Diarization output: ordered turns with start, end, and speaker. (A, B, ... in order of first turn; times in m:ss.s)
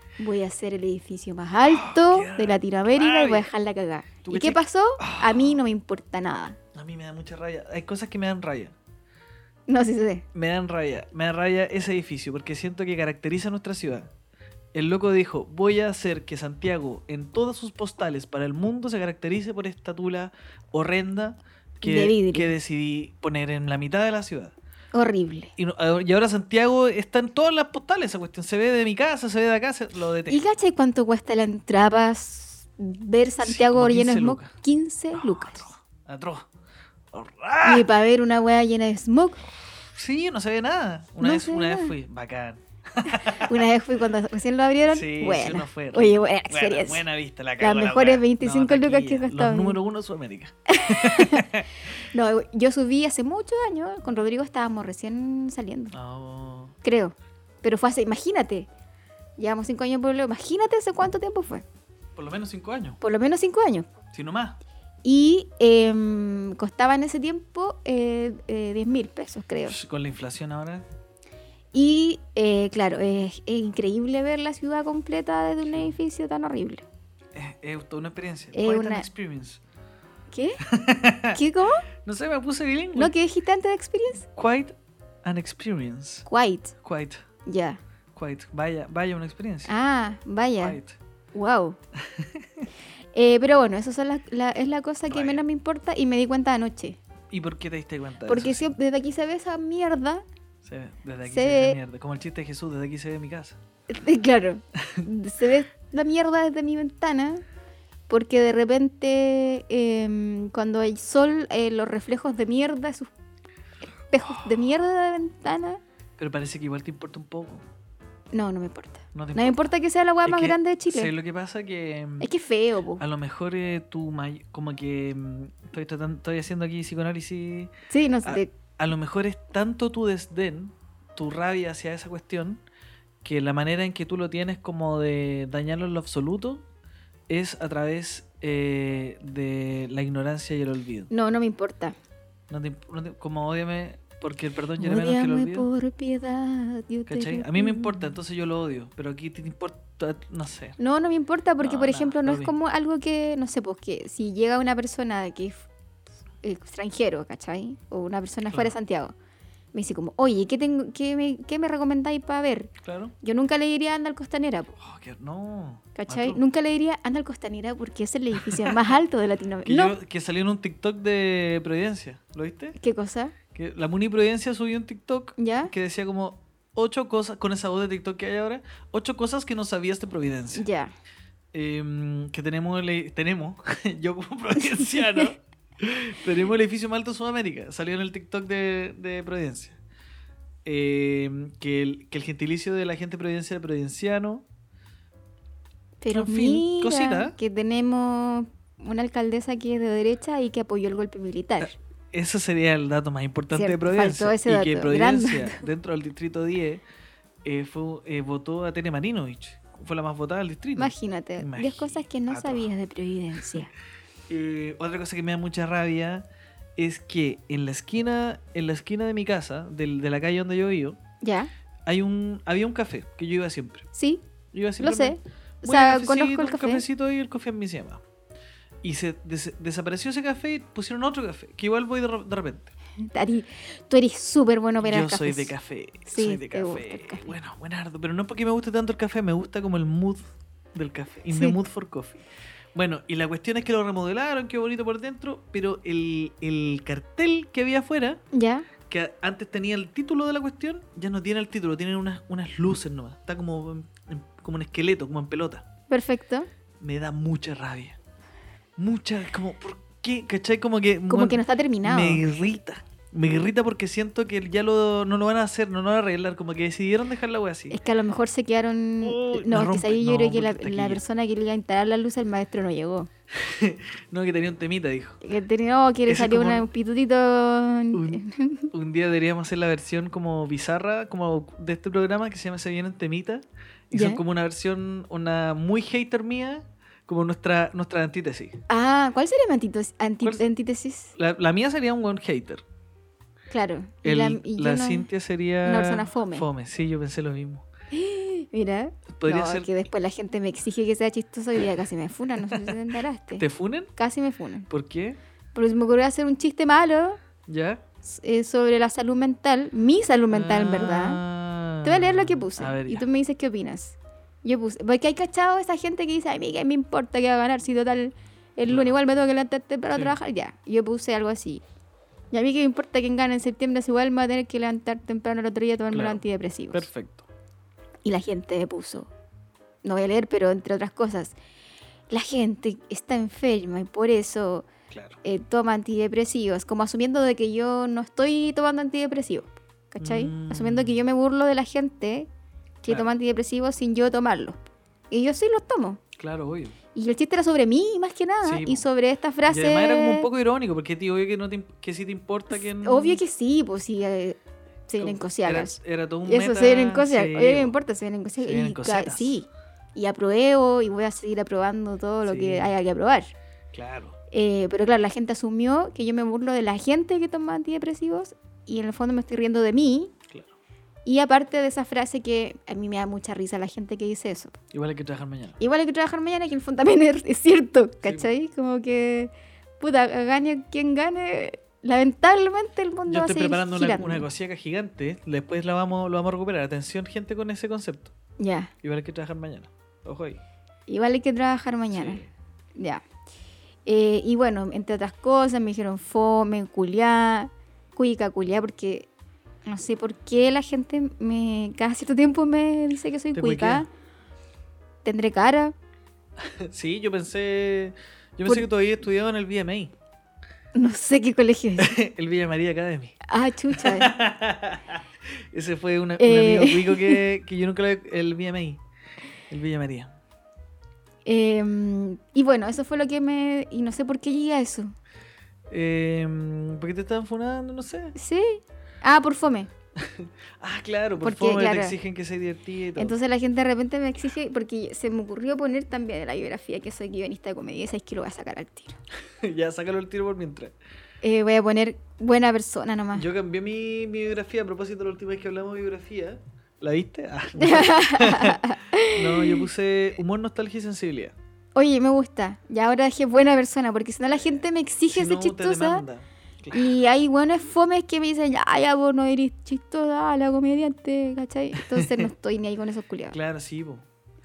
0:00.2-0:06.6 A
0:01.6-0:03.5 B
0:04.2-0:05.6 B
0:06.7-0:08.7 B
0:09.7-0:10.2 A
0:10.3-0:14.1 B
0:14.7-0:24.5 B
0:21.8-0:22.5 A
0:24.9-0:25.5 A
0:25.6-0:30.4 B
0:30.3-0:35.7 A
0:33.4-0:34.5 B
0:35.1-0:36.5 B
0:37.1-0:37.9 B
0:37.6-0:39.4 A
0:39.9-0:43.6 B
0:41.2-0:41.9 A
0:43.0-0:47.0 A
0:44.9-0:51.7 B
0:47.6-0:49.8 A
0:50.7-0:51.5 A
0:52.0-0:55.9 A
0:55.9-0:56.7 B
0:56.8-0:58.7 A
0:59.4-1:01.6 A
1:02.2-1:03.0 B
1:03.0-1:03.9 A
1:04.1-1:04.6 B
1:05.0-1:09.8 A
1:09.6-1:10.8 B
1:11.7-1:16.8 A
1:17.3-1:19.6 B
1:18.5-1:19.1 A
1:20.3-1:20.6 A
1:20.6-1:21.4 B
1:21.3-1:21.8 A
1:22.0-1:23.1 B
1:23.0-1:24.3 A
1:24.4-1:26.2 B
1:26.2-1:26.7 A
1:26.8-1:27.2 B
1:27.4-1:27.8 A
1:28.1-1:29.7 B
1:29.7-1:30.8 A
1:30.6-1:31.0 B
1:31.3-1:31.8 A
1:32.0-1:32.7 B
1:33.1-1:37.0 A
1:35.1-1:35.4 B
1:37.3-1:38.7 B
1:38.2-1:40.2 A
1:40.6-1:43.6 B
1:41.2-1:41.8 A
1:43.9-1:47.4 A
1:48.1-1:53.1 A
1:54.1-1:55.8 A
1:56.2-1:57.6 B
1:58.3-2:01.1 A
1:59.1-1:59.7 B
2:00.2-2:02.3 B
2:02.2-2:03.0 A
2:03.0-2:07.7 B
2:07.9-2:08.5 A
2:08.2-2:12.6 B
2:13.2-2:16.6 B
2:17.3-2:21.1 B
2:21.1-2:22.0 A
2:22.5-2:25.7 B
2:24.8-2:28.1 A
2:27.1-2:30.8 B
2:30.8-2:35.7 A
2:31.6-2:32.5 B
2:36.4-2:39.1 A
2:39.7-2:42.7 A
2:42.8-2:43.1 B
2:43.2-2:44.7 A
2:44.8-2:46.4 B
2:45.9-2:50.0 A
2:48.3-2:48.9 B
2:49.6-2:52.8 B
2:52.8-2:53.3 A
2:53.5-3:00.6 B
2:55.4-2:55.7 A
3:00.5-3:00.9 A
3:01.5-3:09.8 B
3:04.7-3:05.3 A
3:10.6-3:14.4 B
3:16.0-3:21.7 A
3:16.1-3:17.3 B
3:21.6-3:26.8 B
3:23.5-3:25.6 A
3:27.4-3:32.7 B
3:30.8-3:33.7 A
3:34.3-3:41.0 B
3:41.2-3:41.5 A
3:41.8-3:43.8 B
3:43.9-3:44.2 A
3:44.5-3:48.0 B
3:44.8-3:46.8 A
3:48.8-3:52.7 B
3:53.1-3:55.5 A
3:54.8-4:00.2 B
3:56.1-3:57.3 A
4:00.7-4:02.2 B
4:01.3-4:01.6 A
4:02.7-4:08.2 B
4:08.3-4:08.7 A
4:08.8-4:15.6 B
4:15.9-4:16.5 A
4:16.8-4:18.0 B
4:18.8-4:27.8 B
4:21.1-4:22.2 A
4:27.7-4:33.1 A
4:29.0-4:31.0 B
4:33.3-4:35.2 B
4:35.2-4:38.7 A
4:36.1-4:36.7 B
4:37.9-4:48.6 B
4:43.9-4:44.2 A
4:48.7-4:51.1 A
4:51.1-4:52.6 B
4:53.5-4:55.1 A
4:54.0-4:57.6 B
4:55.6-4:56.5 A
4:57.9-5:03.4 A
4:59.2-4:59.7 B
5:02.4-5:02.8 B
5:03.4-5:03.9 B
5:04.0-5:04.7 A
5:04.7-5:05.2 B
5:05.5-5:07.2 A
5:07.5-5:07.8 B
5:08.0-5:11.2 A
5:10.3-5:13.0 B
5:11.8-5:21.6 A
5:22.3-5:26.9 A
5:25.9-5:26.2 B
5:26.7-5:27.2 B
5:28.0-5:29.1 A
5:29.8-5:31.4 A
5:32.1-5:34.7 A
5:34.9-5:35.2 B
5:35.2-5:42.3 A
5:40.0-5:41.0 B
5:42.8-5:44.6 A
5:45.1-5:46.0 A
5:46.2-5:46.8 B
5:46.9-5:50.3 A
5:48.4-5:48.8 B
5:49.5-5:53.2 B
5:52.5-6:03.3 A
5:55.0-5:57.8 B
5:58.4-5:59.4 B
6:02.2-6:02.7 B
6:03.7-6:04.1 B
6:04.3-6:10.1 A
6:11.0-6:14.6 A
6:14.7-6:15.6 B
6:15.6-6:24.3 A
6:18.0-6:18.3 B
6:23.1-6:28.1 B
6:28.4-6:28.7 A
6:28.8-6:30.4 B
6:30.9-6:32.2 A
6:31.9-6:32.3 B
6:32.8-6:33.0 A
6:33.8-6:39.1 A
6:39.6-6:43.9 A
6:43.3-6:43.8 B
6:45.0-6:45.7 A
6:46.4-6:49.9 B
6:50.7-6:52.0 A
6:51.8-6:53.1 B
6:53.3-6:54.1 A
6:53.7-6:58.8 B
6:56.2-6:57.2 A
6:59.5-7:00.1 B
7:01.2-7:04.9 A
7:05.7-7:08.1 B
7:08.2-7:09.7 A
7:10.0-7:13.1 B
7:11.2-7:12.0 A
7:13.0-7:19.0 A
7:19.4-7:20.7 B
7:21.2-7:23.3 A
7:23.1-7:31.3 B
7:27.6-7:29.6 A
7:31.8-7:36.0 A
7:34.4-7:36.9 B
7:36.7-7:43.4 A
7:41.8-7:42.3 B
7:43.3-7:44.0 B